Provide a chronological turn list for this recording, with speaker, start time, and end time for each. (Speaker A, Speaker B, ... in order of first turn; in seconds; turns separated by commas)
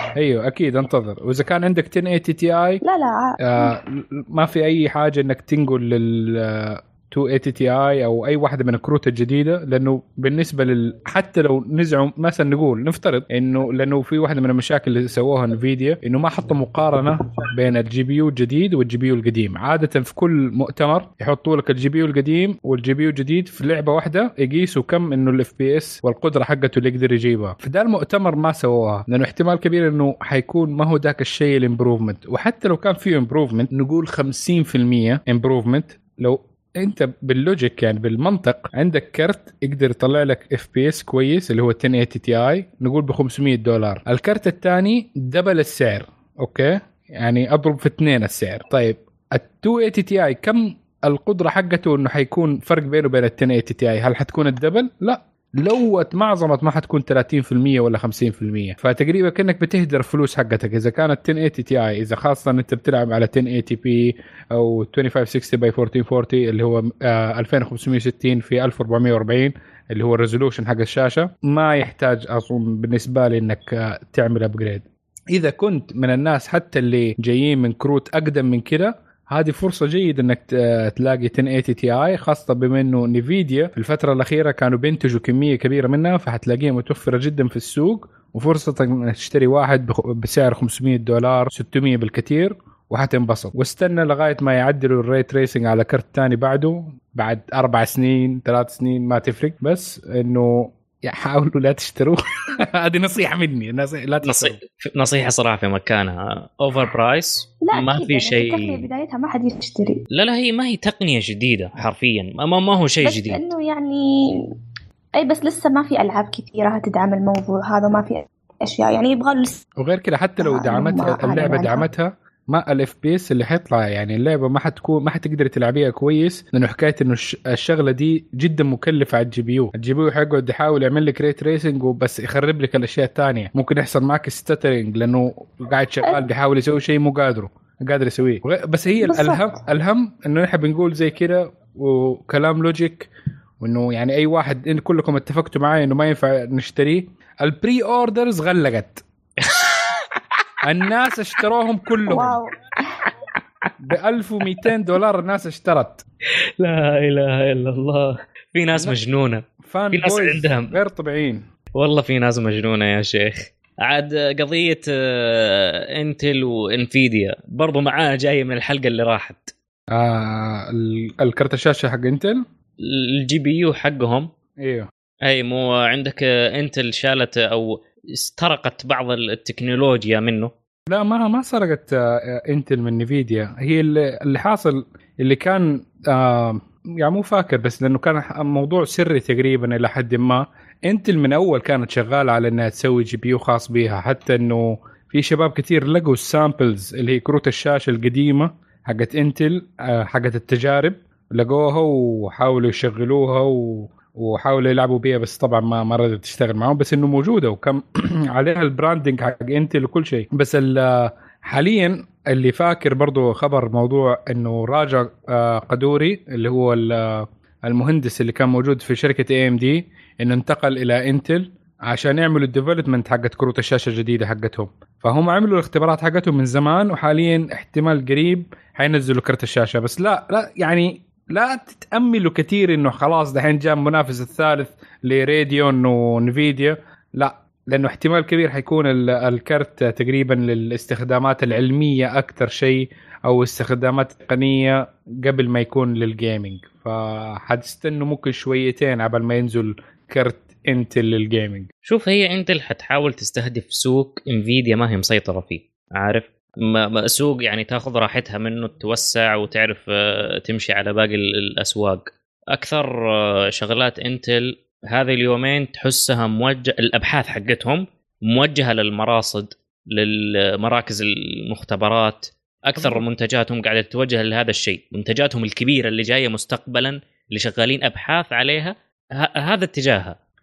Speaker A: 0.1-2.8, Speaker B: 2.8-3.8, Speaker A: 3.4-104.6, Speaker C: 104.2-108.8, Speaker B: 107.6-110.0, Speaker C: 110.1-113.4, Speaker B: 113.0-114.0, Speaker B: 115.2-119.6, Speaker A: 119.8-143.1, Speaker B: 120.4-121.9, Speaker B: 139.0-139.6, Speaker A: 143.6-149.0, Speaker C: 149.4-150.2, Speaker A: 150.6-152.4, Speaker B: 152.1-153.0, Speaker A: 153.8-156.0, Speaker C: 156.6-160.7, Speaker A: 159.6-161.4, Speaker C: 161.8-169.5, Speaker A: 169.9-172.4, Speaker C: 172.8-174.3, Speaker A: 174.6-174.9, Speaker C: 175.2-180.5, Speaker A: 180.9-251.7, Speaker C: 251.9-280.1, Speaker A: 272.8-273.0